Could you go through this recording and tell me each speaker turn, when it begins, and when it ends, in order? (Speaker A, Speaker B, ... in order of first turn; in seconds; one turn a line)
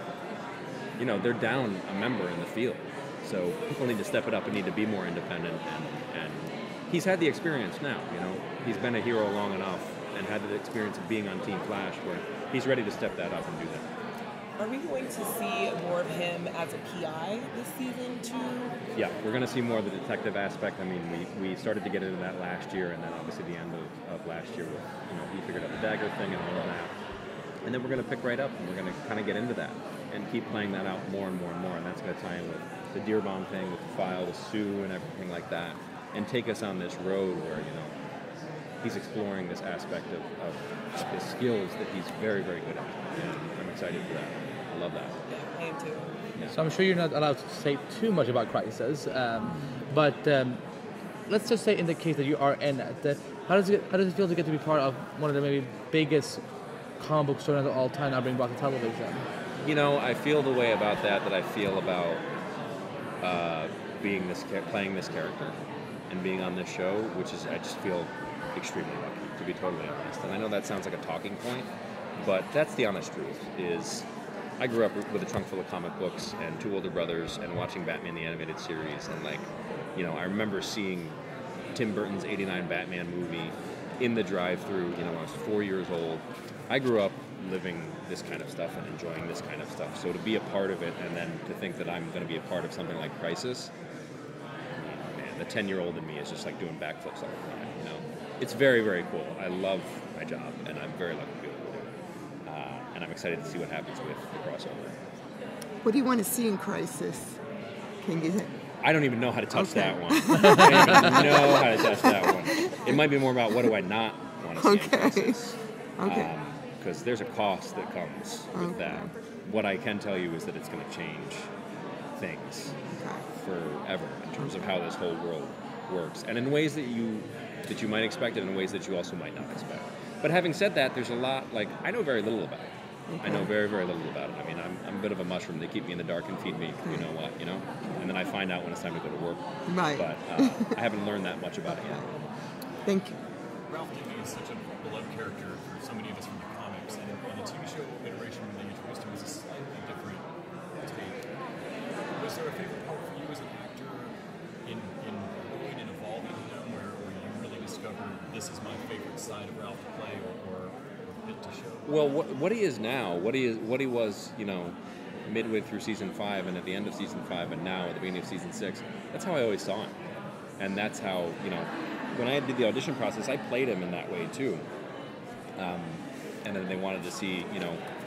Speaker A: 1.0-13.9
Speaker B: 14.6-18.7
Speaker A: 18.9-26.9
Speaker A: 27.6-37.9
Speaker A: 38.8-45.1
Speaker B: 45.3-46.1
Speaker C: 46.5-50.6
Speaker C: 51.3-56.4
Speaker C: 57.0-59.3
Speaker A: 59.6-62.2
Speaker A: 63.2-65.6
Speaker A: 66.1-74.1
Speaker A: 74.6-81.2
Speaker A: 81.8-93.7
Speaker A: 94.7-101.9
Speaker A: 102.5-105.0
Speaker D: 105.8-107.4
Speaker D: 108.0-108.5
Speaker A: 108.8-121.5
Speaker D: 109.5-112.9
Speaker D: 114.6-115.4
Speaker D: 116.0-116.3
Speaker D: 118.5-119.1
Speaker A: 122.2-122.7
Speaker D: 122.9-123.2
Speaker A: 123.4-132.7
Speaker D: 133.1-133.5
Speaker A: 133.2-142.0
Speaker D: 139.7-140.7
Speaker D: 141.8-142.1
Speaker D: 142.9-143.2
Speaker E: 143.7-150.2
Speaker E: 150.8-151.2
Speaker E: 152.2-154.1
Speaker E: 154.7-161.9
Speaker A: 161.9-164.8
Speaker A: 165.3-169.9
Speaker A: 170.6-174.7
Speaker A: 175.6-177.8